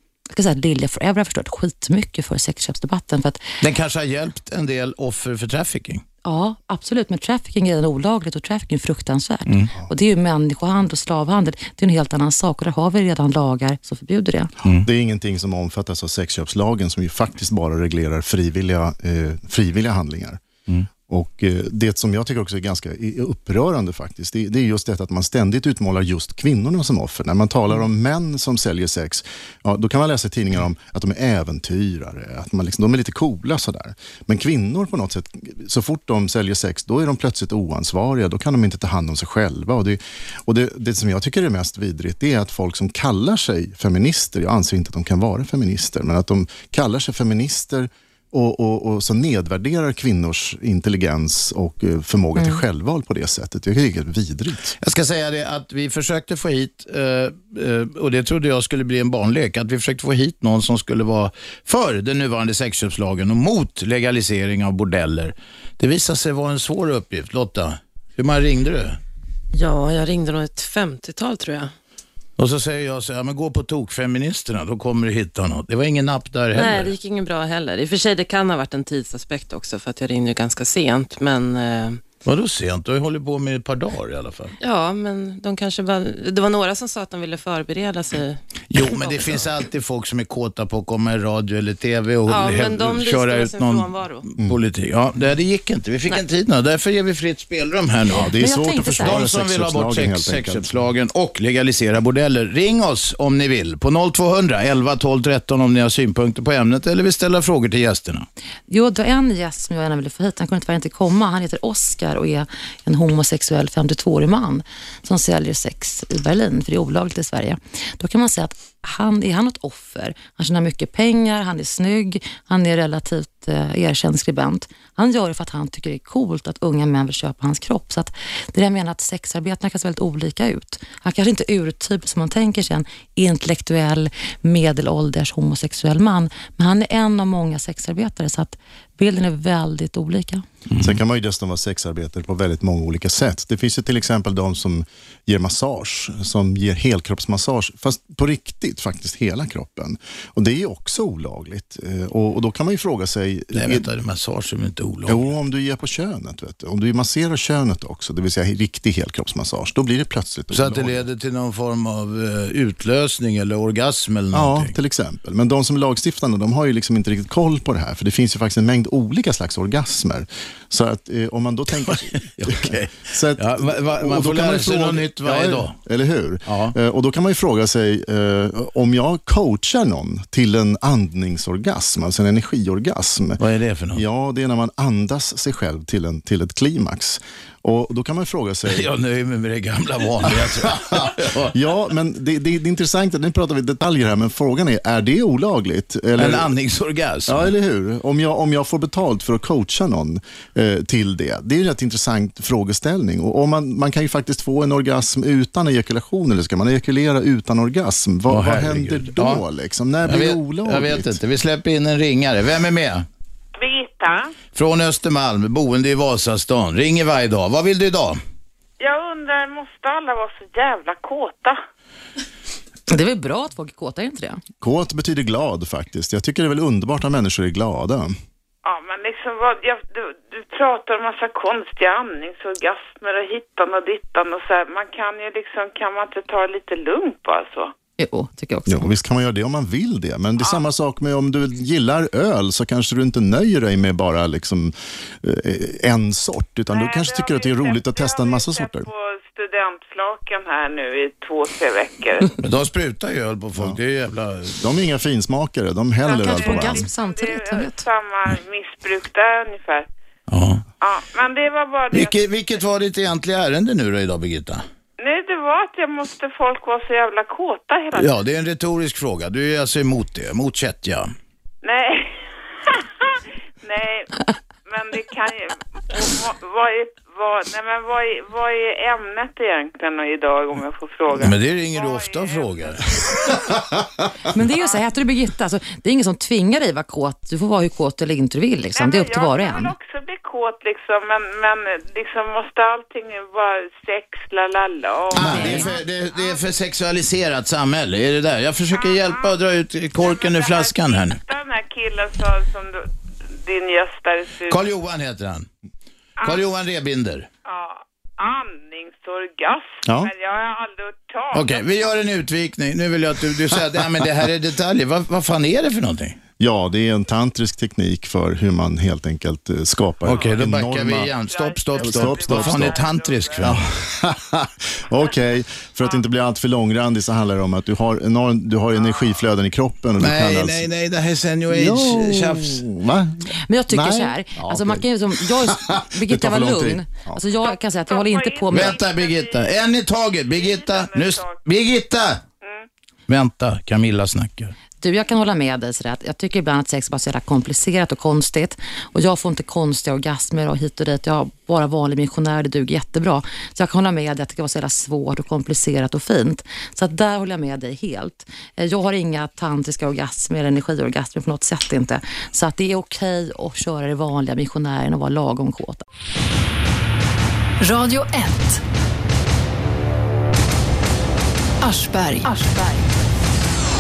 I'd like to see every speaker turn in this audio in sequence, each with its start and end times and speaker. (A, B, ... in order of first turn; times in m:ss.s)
0:00.3-0:03.4 A
0:03.6-0:06.0 B
0:06.2-0:14.5 A
0:14.8-0:20.4 C
0:20.9-0:54.8 C
0:54.8-1:09.0 B
1:09.5-1:11.7 D
1:12.4-1:16.9 B
1:16.5-1:22.0 D
1:22.2-1:24.5 B
1:24.6-1:29.4 D
1:28.7-1:38.3 B
1:32.3-1:34.3 D
1:38.1-1:40.8 C
1:38.4-1:39.2 A
1:39.0-1:48.3 B
1:48.7-2:20.4 A
2:20.7-2:21.0 B
2:20.8-2:33.8 C
2:33.5-2:35.2 B
2:35.1-2:41.0 C
2:40.5-2:44.7 B
2:44.3-3:03.4 C
2:51.8-2:55.7 B
2:56.4-2:56.7 B
3:03.4-3:04.0 B
3:03.9-3:08.8 C
3:08.7-3:11.5 B
3:10.2-3:16.5 C
3:16.2-3:17.5 B
3:17.3-3:31.1 C
3:28.3-3:29.4 B
3:30.0-3:33.0 B
3:33.6-3:34.3 E
3:34.5-3:38.2 B
3:38.8-3:41.6 E
3:42.9-3:44.4 A
3:44.6-3:48.1 C
3:48.6-3:57.7 E
3:58.0-3:58.9 A
3:58.7-4:08.9 C
4:06.7-4:12.4 E
4:12.4-4:14.6 B
4:14.6-4:16.8 C
4:16.0-4:19.9 E
4:16.2-4:17.8 A
4:20.3-4:20.6 B
4:20.8-4:22.1 E
4:21.9-4:24.6 B
4:25.0-4:28.2 E
4:27.9-4:31.1 B
4:31.6-4:43.5 E
4:41.2-4:42.8 B
4:44.3-4:49.7 A
4:48.7-4:56.4 E
4:55.1-5:01.2 B
4:55.2-4:55.6 C
4:58.7-4:59.4 E
5:00.0-5:04.6 E
5:04.5-5:05.5 B
5:06.2-5:07.3 B
5:07.4-5:11.6 E
5:09.8-5:10.1 C
5:11.3-5:16.2 B
5:16.4-5:21.1 C
5:20.0-5:23.6 B
5:20.1-5:20.4 E
5:21.3-5:23.6 E
5:21.8-5:22.8 C
5:23.4-5:30.7 C
5:30.0-5:32.7 B
5:31.5-5:37.2 C
5:33.5-5:38.8 A
5:37.4-5:39.5 E
5:38.5-5:42.2 B
5:40.3-5:41.4 E
5:43.1-5:44.5 B
5:44.8-6:05.8 A
6:07.6-6:08.6 F
6:11.6-6:12.9 F